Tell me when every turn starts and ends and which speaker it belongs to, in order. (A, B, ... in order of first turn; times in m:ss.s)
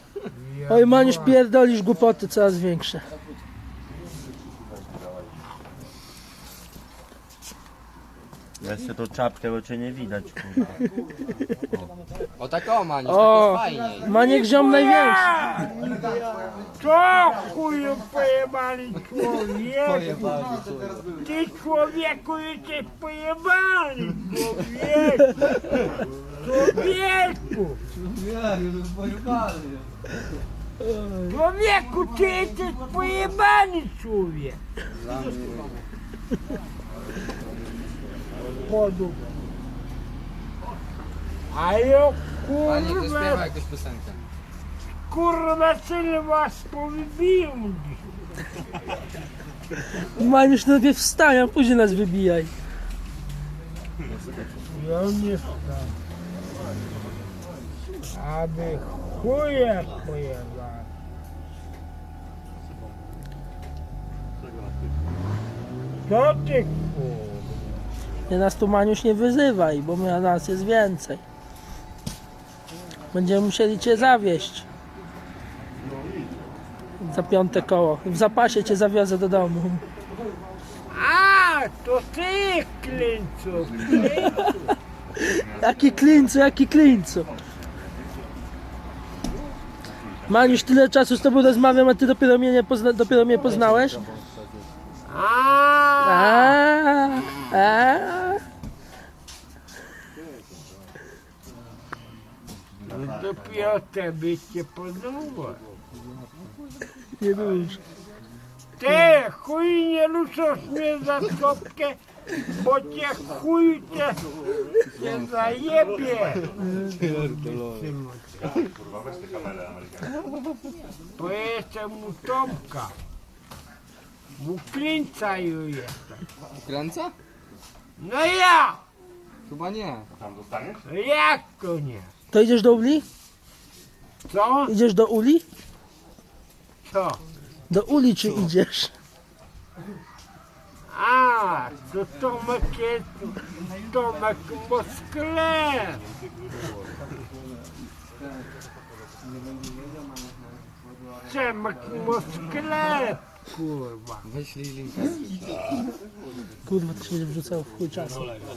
0:00.3-0:01.4 A
0:00.7-0:03.1 B
0:08.6-0:10.8 C
0:12.4-0:14.1 D
0:13.0-0:15.3 B
0:14.0-0:15.7 A
0:15.8-0:16.5 D
0:16.8-0:20.3 A
0:19.8-0:21.1 D
0:21.2-0:25.4 A
0:26.4-0:27.8 A
0:27.9-0:30.0 D
0:30.8-0:31.3 B
0:31.3-0:34.6 A
0:34.9-0:35.8 D
0:38.6-0:39.2 A
0:41.5-0:43.5 A
0:42.6-0:44.2 D
0:45.1-0:48.0 A
0:50.0-0:52.5 B
0:54.7-0:56.0 A
0:58.1-1:00.9 A
1:06.0-1:07.7 A
1:08.3-1:11.2 B
1:13.1-1:14.6 B
1:17.0-1:19.8 B
1:20.9-1:24.7 A
1:25.2-1:27.3 B
1:30.3-1:34.0 B
1:33.4-1:34.6 D
1:35.0-1:36.6 A
1:36.0-1:38.4 B
1:42.9-1:45.6 A
1:47.2-1:47.8 B
1:48.8-1:54.2 A
1:54.9-1:58.6 A
1:55.0-1:55.2 D
1:56.8-1:57.9 D
2:01.2-2:02.9 A
2:04.4-2:06.2 A
2:06.6-2:07.1 D
2:08.0-2:08.8 A
2:09.4-2:10.1 D
2:10.8-2:12.1 A
2:12.3-2:13.0 B
2:14.2-2:14.7 A
2:14.7-2:15.4 B
2:16.8-2:17.2 A
2:17.7-2:18.9 B
2:20.8-2:26.0 A
2:31.2-2:34.3 A
2:34.2-2:35.6 D
2:36.6-2:38.4 B